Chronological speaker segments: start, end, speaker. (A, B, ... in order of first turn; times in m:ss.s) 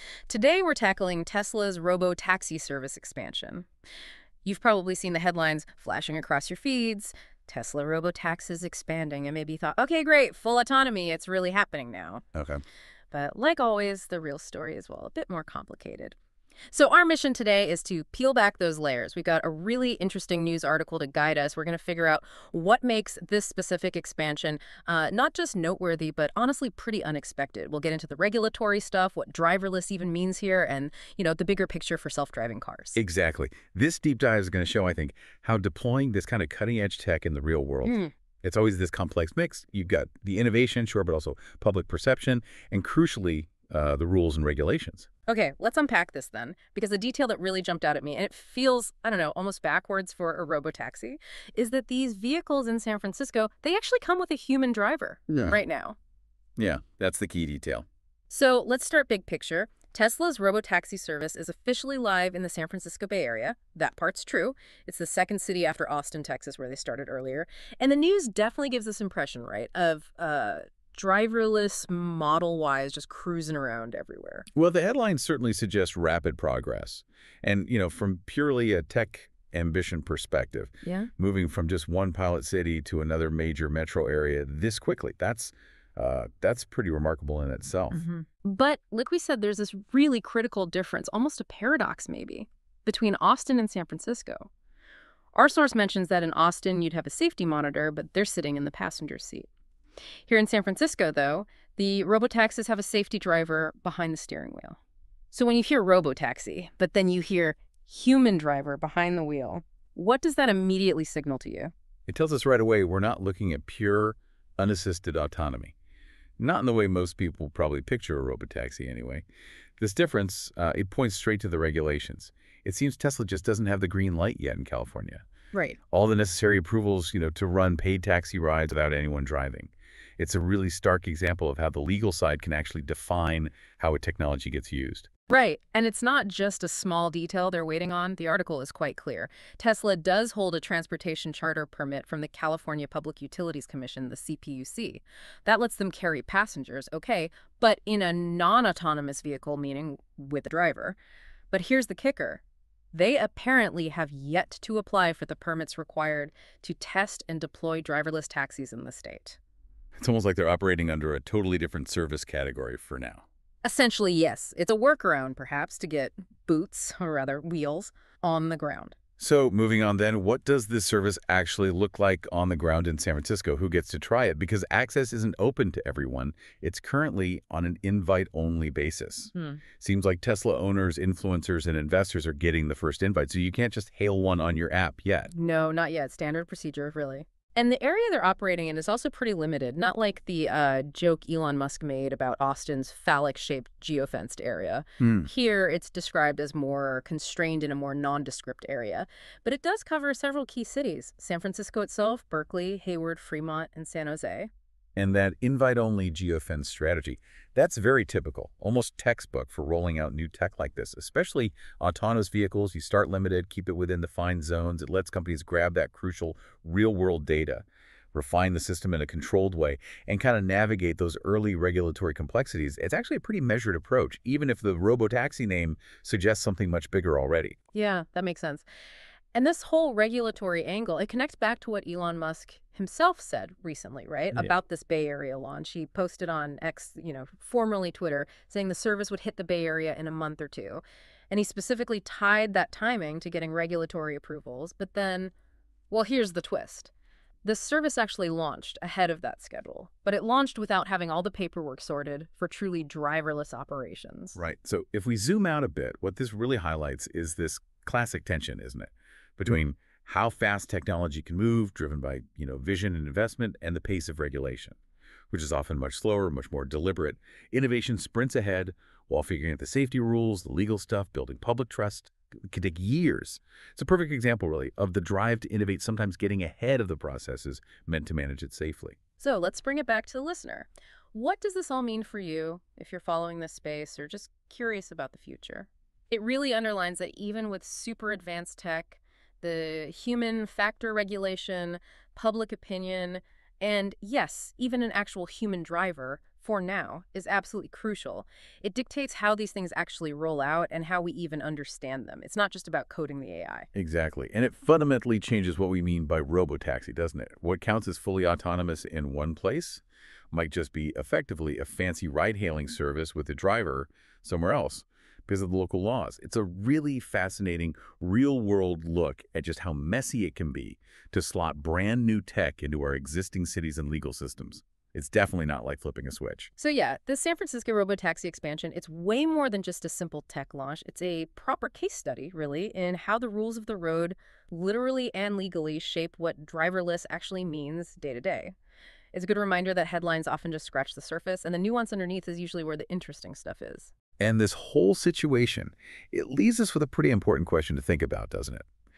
0:00.3-0:03.7 A
0:04.4-0:12.2 A
0:12.3-0:12.6 B
0:13.1-0:16.2 A
0:16.7-0:33.0 A
0:33.0-0:45.1 B
0:37.8-0:38.1 A
0:45.3-0:56.0 A
0:56.6-0:57.8 B
0:58.3-1:14.4 A
1:14.5-1:28.0 B
1:27.9-1:34.5 A
1:35.3-1:39.5 A
1:40.3-1:44.8 A
1:45.3-1:51.7 A
1:52.1-1:55.7 B
1:56.4-1:59.2 B
1:59.8-2:05.2 B
2:05.5-2:05.8 A
2:05.9-2:15.1 B
2:15.3-2:31.0 A
2:31.5-2:32.4 A
2:32.9-2:39.4 A
2:40.0-2:43.2 B
2:43.6-2:48.9 A
2:49.2-3:05.3 B
2:59.3-2:59.6 A
3:05.3-3:24.5 A
3:15.0-3:15.3 B
3:25.0-3:47.6 B
3:47.7-3:48.6 A
3:49.3-4:05.3 A
4:05.9-4:06.9 A
4:07.4-4:14.4 A
4:14.3-4:24.8 B
4:25.3-4:39.0 B
4:39.2-5:03.7 A
5:03.7-5:26.5 B
5:26.6-5:38.5 A
5:39.1-5:43.9 A
5:44.2-5:48.6 B